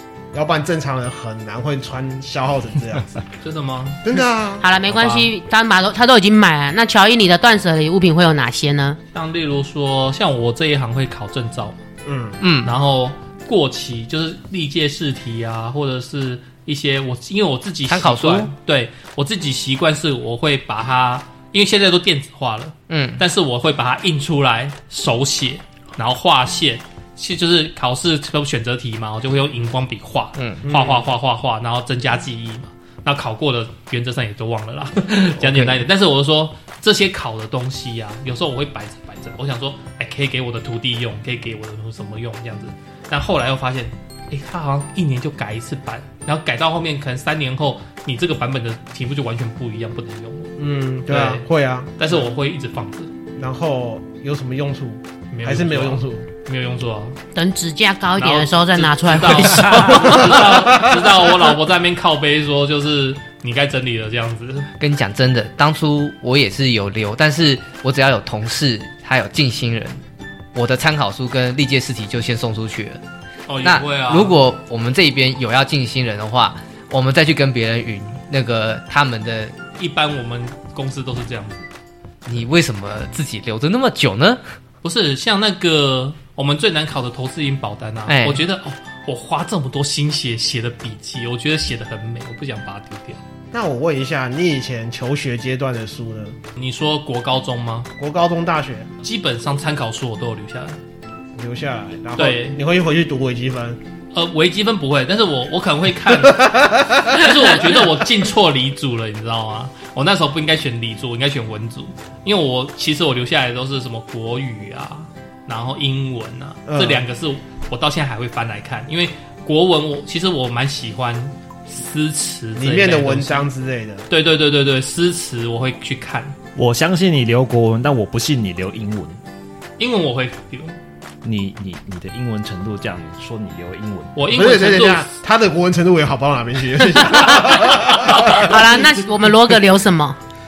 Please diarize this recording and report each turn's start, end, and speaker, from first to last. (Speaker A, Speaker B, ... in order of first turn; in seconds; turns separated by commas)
Speaker A: 0.3-3.2, Speaker B: 3.4-4.0, Speaker A: 4.0-4.7, Speaker C: 4.6-9.0, Speaker B: 4.9-5.3, Speaker B: 9.1-11.8, Speaker A: 12.1-12.4, Speaker D: 12.4-12.8, Speaker B: 12.6-50.5, Speaker D: 17.9-18.5, Speaker D: 22.9-23.2, Speaker D: 30.4-30.6, Speaker A: 30.6-31.1, Speaker D: 35.4-35.8, Speaker A: 50.6-52.3, Speaker B: 51.1-51.5, Speaker B: 52.0-53.1, Speaker A: 53.4-56.2, Speaker B: 55.3-57.2, Speaker C: 57.4-60.4, Speaker B: 58.2-64.7, Speaker A: 60.0-61.0, Speaker D: 64.8-70.0, Speaker D: 70.5-73.0, Speaker B: 73.5-74.4, Speaker D: 73.6-79.6, Speaker B: 79.8-81.7, Speaker D: 82.2-84.4, Speaker B: 84.8-93.2, Speaker D: 88.1-88.4, Speaker A: 93.5-96.4, Speaker B: 96.6-97.9, Speaker A: 98.0-98.9, Speaker B: 99.0-100.8, Speaker A: 101.4-103.8, Speaker B: 102.2-102.6, Speaker B: 104.1-123.5, Speaker A: 106.2-107.3, Speaker A: 116.7-117.0, Speaker A: 122.6-124.1, Speaker B: 124.1-126.4, Speaker E: 126.6-129.2, Speaker B: 129.8-130.8, Speaker E: 131.2-134.2, Speaker B: 134.2-135.1, Speaker A: 134.3-138.8, Speaker B: 138.1-138.5, Speaker C: 138.2-140.2